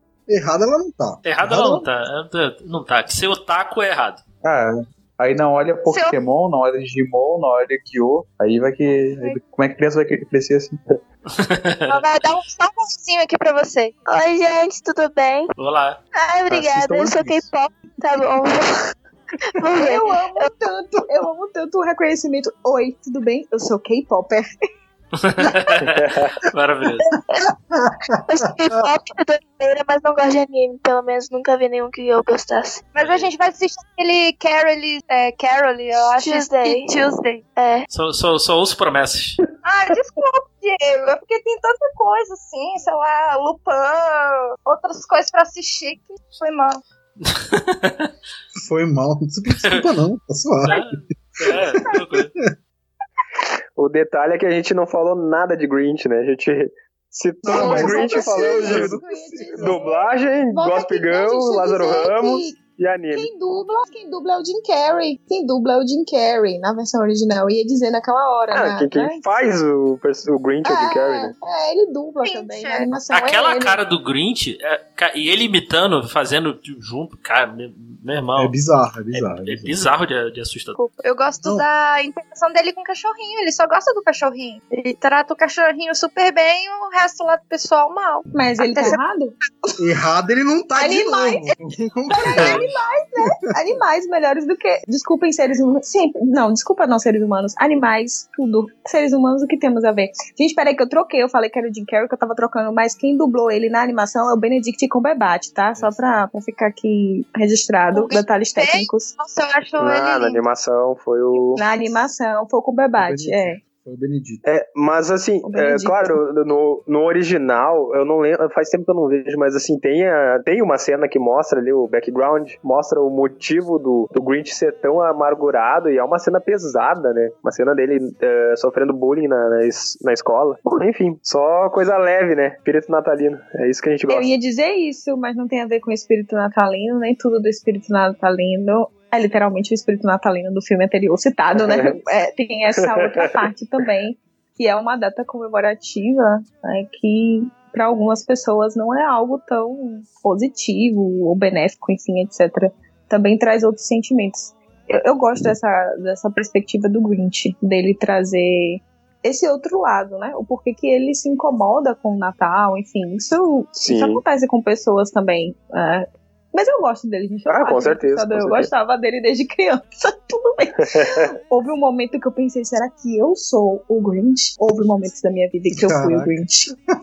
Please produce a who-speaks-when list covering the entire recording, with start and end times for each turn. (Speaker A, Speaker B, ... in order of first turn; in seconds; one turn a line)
Speaker A: 0.3-1.9
Speaker B: 1.2-4.2
Speaker C: 4.4-10.8
Speaker D: 5.9-6.2
Speaker B: 11.3-12.0
Speaker D: 11.9-14.0
Speaker E: 14.1-15.5
Speaker B: 15.6-16.0
Speaker E: 16.2-18.6
Speaker A: 16.6-17.4
Speaker D: 19.7-20.4
Speaker F: 19.8-24.5
Speaker B: 25.1-27.1
Speaker G: 25.8-26.4
Speaker E: 28.3-32.9
Speaker D: 32.9-37.4
Speaker B: 33.0-33.3
Speaker E: 36.1-37.9
Speaker B: 37.9-39.4
Speaker D: 39.6-46.8
Speaker B: 47.2-48.1
Speaker A: 48.6-50.8
Speaker B: 50.6-52.3
Speaker A: 51.4-52.2
Speaker G: 53.8-63.3
Speaker A: 57.5-59.8
Speaker F: 57.5-62.6
Speaker F: 63.1-69.2
Speaker G: 68.5-71.3
Speaker F: 70.6-73.8
Speaker D: 72.2-73.0
Speaker B: 73.1-78.5
Speaker A: 78.4-79.8
Speaker B: 79.1-80.8
Speaker D: 80.8-89.0
Speaker F: 88.3-89.4
Speaker A: 89.8-92.7
Speaker F: 90.8-91.5
Speaker F: 92.1-109.1
Speaker B: 92.4-92.6
Speaker A: 105.8-106.1
Speaker D: 107.9-110.4
Speaker G: 109.8-111.6
Speaker F: 111.5-113.6
Speaker A: 113.0-114.4
Speaker G: 114.4-134.3
Speaker F: 115.4-116.1
Speaker F: 134.1-176.7
Speaker G: 141.6-141.9
Speaker G: 143.0-143.3
Speaker G: 163.8-164.2
Speaker G: 167.5-168.7
Speaker G: 170.9-171.2
Speaker A: 175.8-176.3